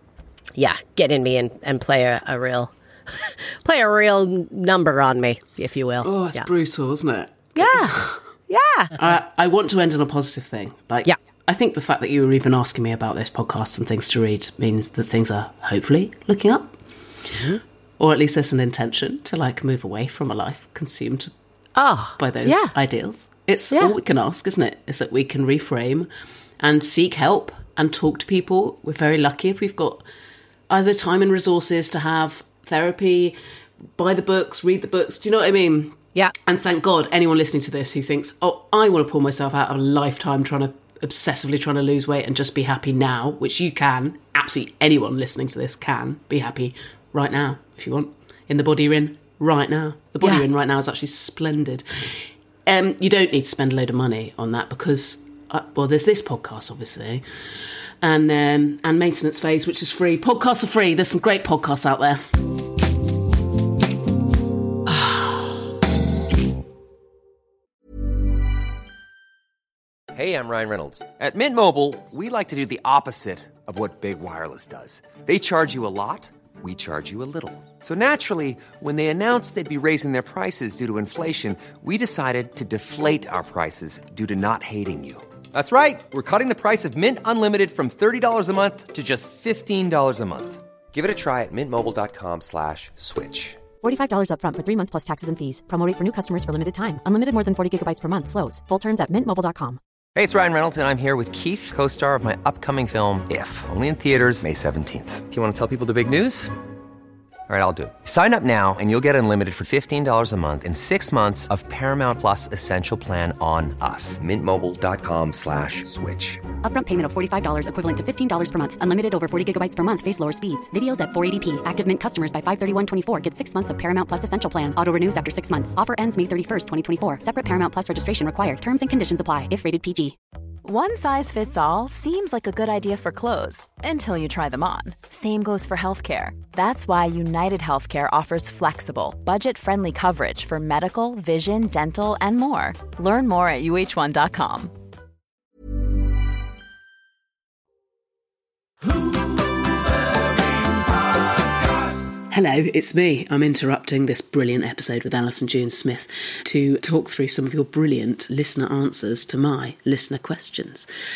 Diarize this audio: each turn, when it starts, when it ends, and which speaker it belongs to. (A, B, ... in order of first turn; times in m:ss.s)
0:00.6-0:06.5 A
0:06.0-0:08.2 B
0:07.6-0:09.0 A
0:09.0-0:16.8 B
0:18.0-0:21.3 B
0:21.8-0:22.7 A
0:22.2-0:26.1 B
0:26.6-0:30.0 B
0:30.7-0:33.4 B
0:34.0-0:57.2 B
0:58.0-1:02.2 B
1:10.1-1:33.7 C
1:33.8-1:39.8 D
1:40.2-1:46.5 C
1:47.5-1:56.5 C
1:56.6-2:10.2 D
2:10.6-2:24.7 E
2:32.3-2:40.9 B